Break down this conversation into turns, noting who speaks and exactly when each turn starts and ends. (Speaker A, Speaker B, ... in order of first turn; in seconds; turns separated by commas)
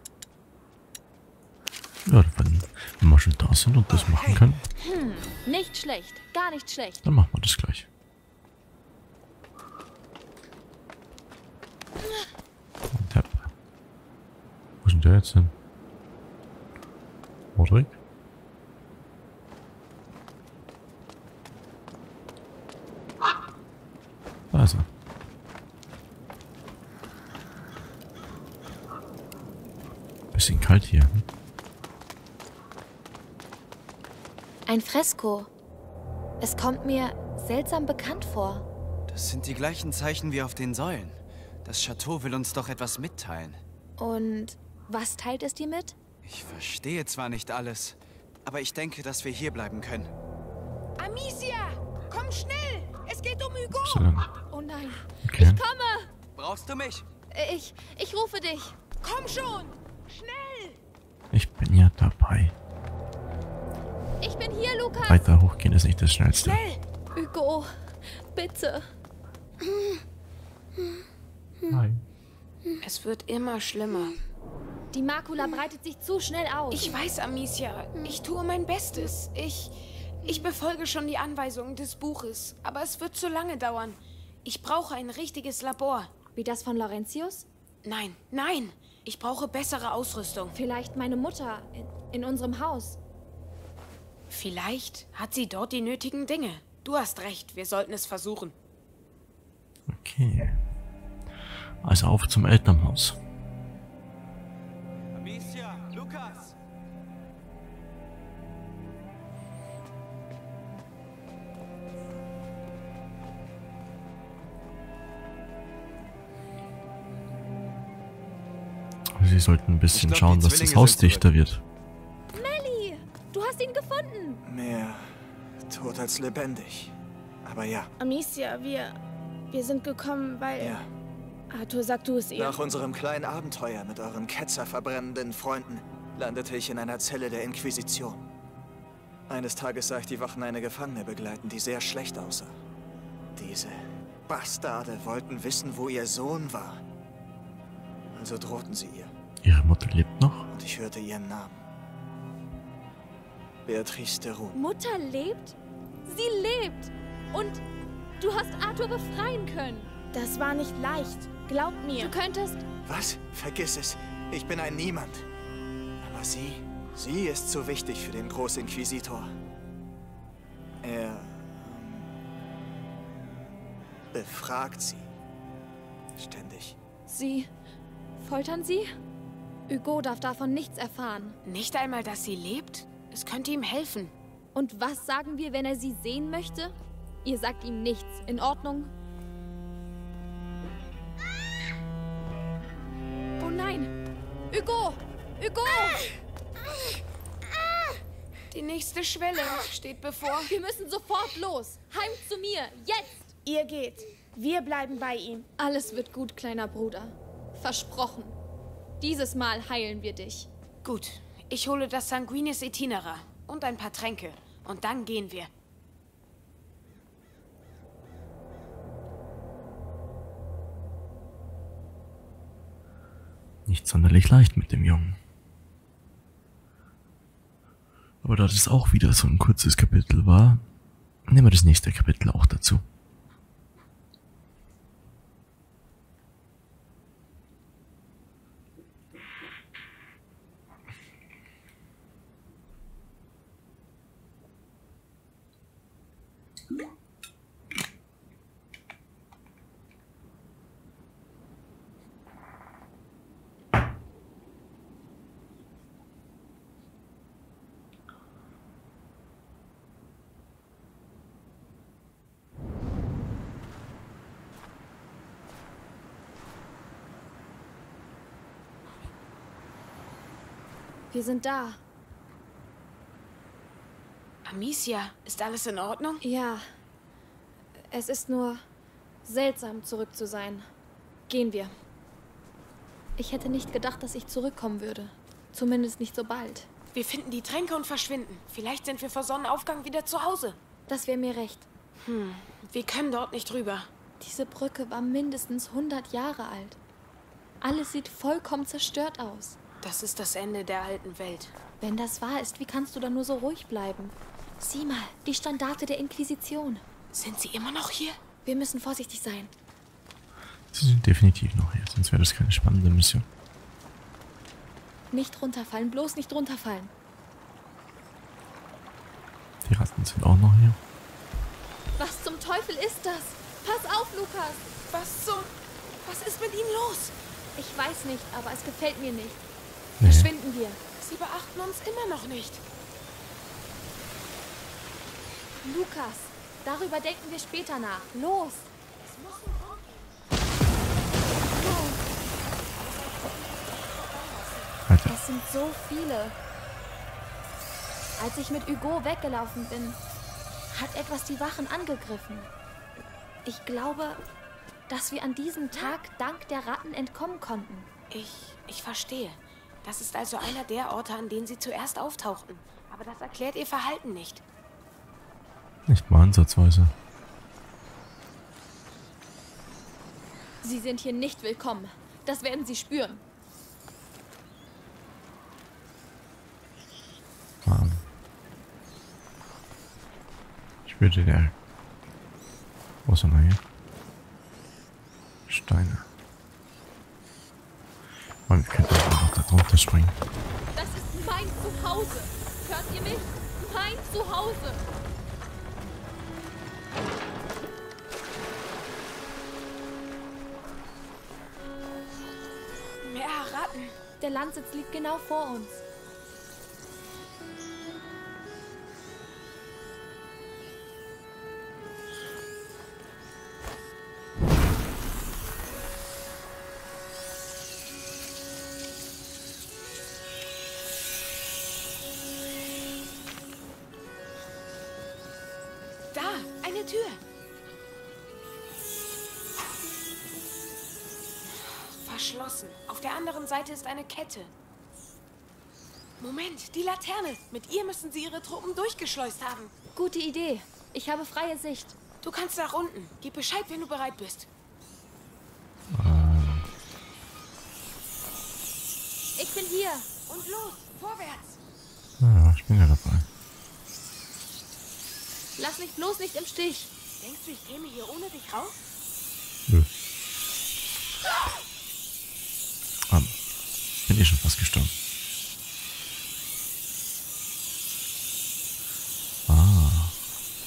Speaker A: 2.0-4.6, Speaker B: 4.0-4.4, Speaker C: 4.8-7.0, Speaker A: 7.0-7.9, Speaker A: 12.9-13.5, Speaker A: 14.8-15.5, Speaker A: 17.6-17.9, Speaker A: 24.5-24.9, Speaker A: 30.3-31.2, Speaker C: 34.6-35.5, Speaker C: 36.4-38.6, Speaker B: 39.1-43.6, Speaker C: 44.0-46.0, Speaker B: 46.2-50.1, Speaker D: 51.0-54.1, Speaker A: 53.7-54.3, Speaker C: 54.5-56.1, Speaker A: 55.2-55.6, Speaker B: 56.4-57.0, Speaker C: 57.3-58.8, Speaker D: 59.0-60.8, Speaker A: 61.3-62.5, Speaker C: 64.2-65.3, Speaker A: 65.1-66.6, Speaker D: 66.4-66.8, Speaker C: 67.1-68.9, Speaker A: 71.7-72.0, Speaker D: 72.8-74.1, Speaker C: 74.9-77.0, Speaker D: 76.7-86.1, Speaker C: 86.3-87.5, Speaker D: 87.8-90.5, Speaker C: 90.5-93.0, Speaker D: 94.3-98.5, Speaker A: 99.9-100.6, Speaker A: 101.8-103.2, Speaker B: 105.1-106.5, Speaker A: 119.1-121.6, Speaker B: 119.9-121.3, Speaker C: 122.3-124.4, Speaker E: 124.5-125.2, Speaker E: 125.7-127.9, Speaker F: 128.0-128.9, Speaker F: 129.5-130.8, Speaker E: 130.6-130.9, Speaker F: 131.5-132.6, Speaker E: 132.4-138.2, Speaker E: 139.3-142.5, Speaker E: 143.3-146.8, Speaker E: 148.1-149.1, Speaker A: 149.4-150.5, Speaker E: 150.5-151.6, Speaker E: 153.7-154.6, Speaker C: 154.5-157.6, Speaker C: 158.2-159.9, Speaker F: 160.1-162.1, Speaker C: 161.9-162.6, Speaker E: 162.8-165.2, Speaker E: 166.0-169.3, Speaker E: 170.8-172.1, Speaker E: 174.1-175.1, Speaker E: 176.2-176.8, Speaker C: 177.1-177.5, Speaker C: 178.2-178.9, Speaker C: 179.7-181.4, Speaker D: 181.4-184.1, Speaker C: 184.5-188.9, Speaker C: 193.4-193.9, Speaker C: 194.5-196.0, Speaker D: 198.5-200.5, Speaker C: 200.5-203.3, Speaker F: 203.4-205.4, Speaker C: 205.6-208.4, Speaker C: 209.0-210.5, Speaker D: 210.8-215.5, Speaker A: 223.7-225.2, Speaker A: 228.2-230.6, Speaker A: 231.3-232.8, Speaker C: 271.1-271.8, Speaker D: 274.4-276.2, Speaker C: 276.2-276.6, Speaker C: 277.8-278.6, Speaker C: 279.2-280.7, Speaker C: 281.3-281.7, Speaker C: 283.2-286.7, Speaker D: 286.9-290.6, Speaker C: 290.9-291.6, Speaker D: 292.0-293.9, Speaker C: 294.2-296.8, Speaker C: 297.6-299.6, Speaker D: 299.8-301.5, Speaker C: 301.8-306.8, Speaker D: 307.1-308.2, Speaker C: 308.4-309.5, Speaker A: 310.7-313.2, Speaker C: 315.1-316.9, Speaker A: 319.6-320.8, Speaker C: 322.0-324.6, Speaker D: 324.9-325.5, Speaker D: 326.0-327.1, Speaker C: 327.6-329.4, Speaker A: 330.0-330.3, Speaker C: 330.0-330.8, Speaker D: 331.0-332.6, Speaker C: 335.6-338.7, Speaker D: 339.0-340.1, Speaker C: 341.6-342.0, Speaker D: 342.7-344.8, Speaker A: 344.9-345.1, Speaker C: 345.1-346.4, Speaker C: 348.2-350.0, Speaker C: 350.7-352.5, Speaker C: 353.4-354.2, Speaker C: 354.9-357.9, Speaker D: 358.1-364.4, Speaker A: 365.9-366.9, Speaker C: 370.6-373.2, Speaker A: 377.6-378.0, Speaker A: 380.8-381.5, Speaker A: 383.1-383.6, Speaker A: 385.5-386.1, Speaker A: 388.5-390.1, Speaker C: 390.7-394.8, Speaker D: 403.0-403.9, Speaker C: 404.2-405.8, Speaker D: 426.1-427.2, Speaker D: 431.4-434.5, Speaker D: 436.2-439.7, Speaker C: 439.9-442.0, Speaker D: 442.2-444.5, Speaker A: 445.9-446.6, Speaker C: 449.4-450.1, Speaker D: 450.3-451.6, Speaker A: 452.2-453.3, Speaker C: 455.6-456.9, Speaker D: 457.2-458.8, Speaker A: 463.1-463.3, Speaker A: 464.1-464.9, Speaker A: 469.5-470.1